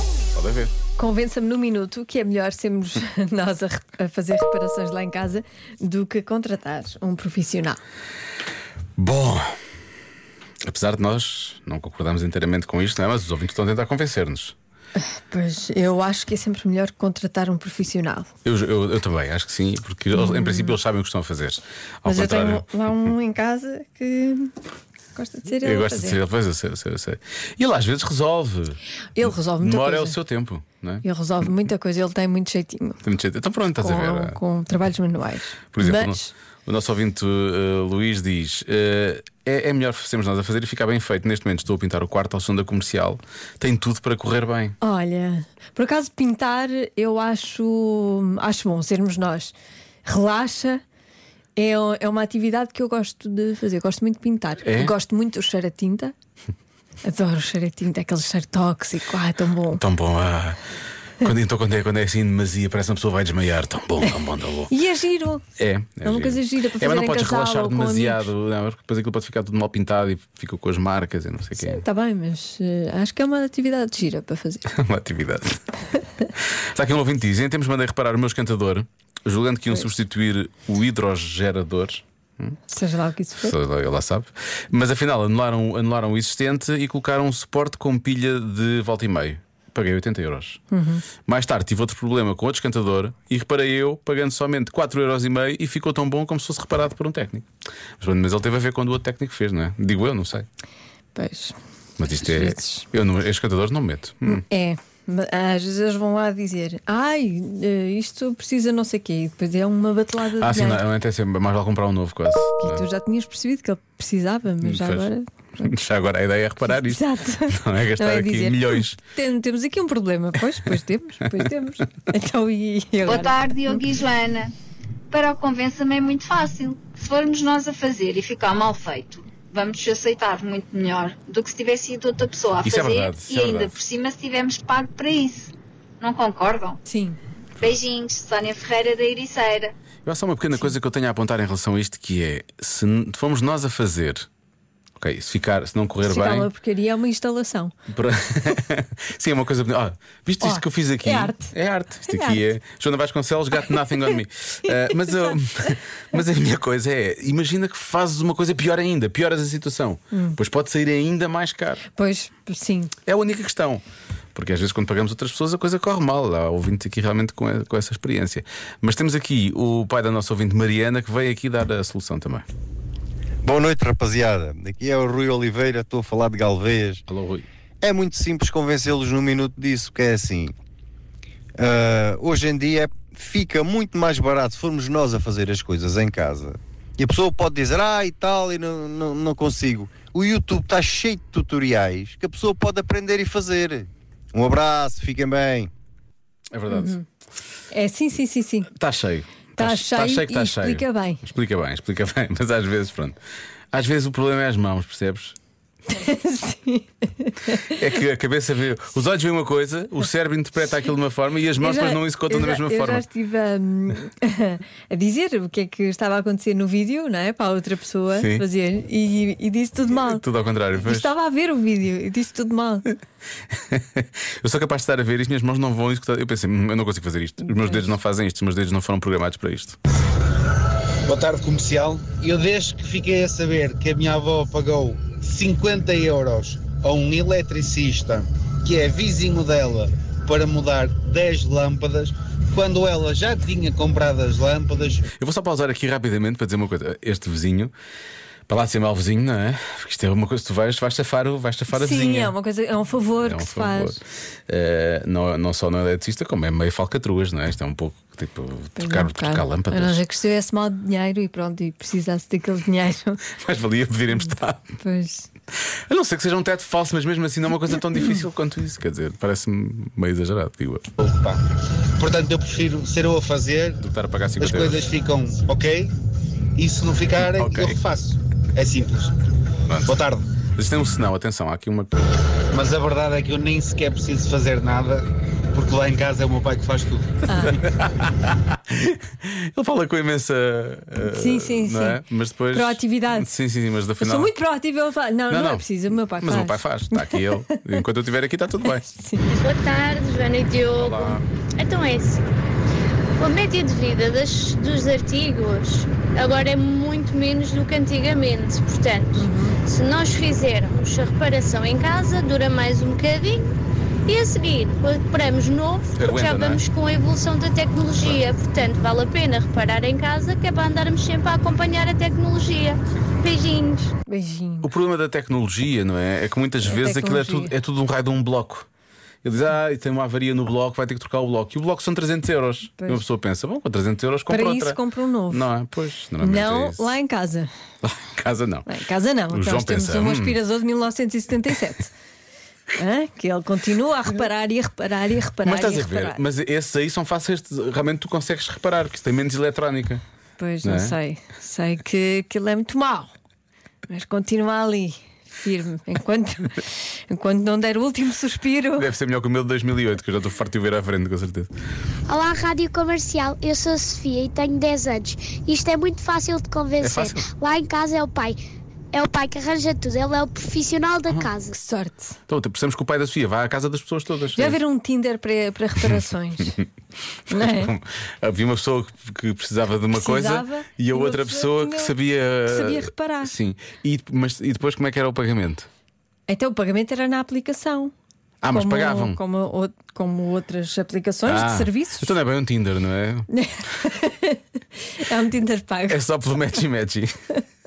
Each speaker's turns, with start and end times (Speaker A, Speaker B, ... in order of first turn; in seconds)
Speaker A: 0.3-0.7, 8.9-9.6, 10.6-14.6, 18.4-22.6, 25.6-31.0, 33.0-34.4, 35.7-44.7, 54.6-54.9, 59.7-60.6, 61.2-64.7, 65.6-71.8, 74.7-75.6, 76.7-82.5, 83.4-90.6, 91.2-97.5, 98.0-100.5, 102.0-104.4, 110.4-112.8, 114.6-119.0, 132.6-133.8, 140.1-144.3, 145.0-146.5, 147.9-161.8, 163.1-163.8, 164.3-172.4, 177.1-177.4, 196.5-197.0, 198.7-203.2, 203.7-205.4, 207.7-213.0, 218.1-218.4, 220.0-221.1, 223.5-229.8, 245.2-247.7, 248.5-252.3, 253.2-260.0, 263.3-264.7, 265.9-270.9, 273.8-274.9, 277.1-277.8, 279.7-280.0, 280.5-281.9, 287.3-294.3, 295.3-298.8, 300.8-301.2, 315.9-316.6, 318.0-318.2, 324.6-328.7, 329.2-334.8, 335.3-336.9, 337.8-338.7, 339.3-340.4, 345.4-350.0, 350.6-350.9, 358.8-361.5, 366.8-367.3, 372.3-374.6, 377.3-385.7, 388.4-389.2, 391.2-393.3, 395.9-397.1
Speaker B: 1.0-7.8, 14.9-18.3, 20.1-20.8, 22.0-24.5, 25.1-26.2, 29.1-30.2, 31.0-33.0, 33.8-36.3, 44.8-49.5, 50.0-50.8, 51.5-56.1, 57.0-59.8, 64.1-65.4, 66.0-68.3, 71.6-74.7, 79.7-79.9, 82.7-83.5, 90.7-91.0, 101.1-101.5, 102.1-102.9, 104.2-110.8, 112.6-115.7, 116.7-123.8, 136.8-137.2, 146.0-147.7, 150.4-151.5, 152.1-152.4, 153.6-154.1, 160.1-160.4, 161.9-162.9, 196.7-197.0, 197.7-198.7, 199.6-201.2, 205.9-207.9, 211.6-220.2, 220.8-222.9, 227.4-227.9, 251.7-254.0, 258.8-263.2, 264.1-265.3, 287.2-287.6, 291.0-293.3, 294.0-297.8, 298.7-299.4, 309.1-309.6, 324.1-324.7, 326.6-327.5, 332.8-333.0, 334.3-335.5, 336.2-337.5, 338.6-341.9, 342.8-346.2, 350.4-353.1, 353.9-358.9, 371.5-372.2, 374.3-376.6, 377.3-377.7, 379.9-381.9, 382.4-383.3, 386.3-387.9, 388.5-392.2, 393.3-396.0
Speaker C: 123.1-124.3, 125.1-135.5, 136.0-136.8, 137.6-139.7
Speaker D: 173.4-177.0, 177.8-180.5, 181.6-195.7
Speaker E: 231.1-245.0, 271.0-271.4, 271.9-273.8, 274.4-275.9, 276.6-279.2, 279.8-280.2, 282.5-287.1
Speaker F: 299.3-302.3, 303.2-313.5, 314.1-323.9
Speaker G: 362.1-368.4, 368.9-371.6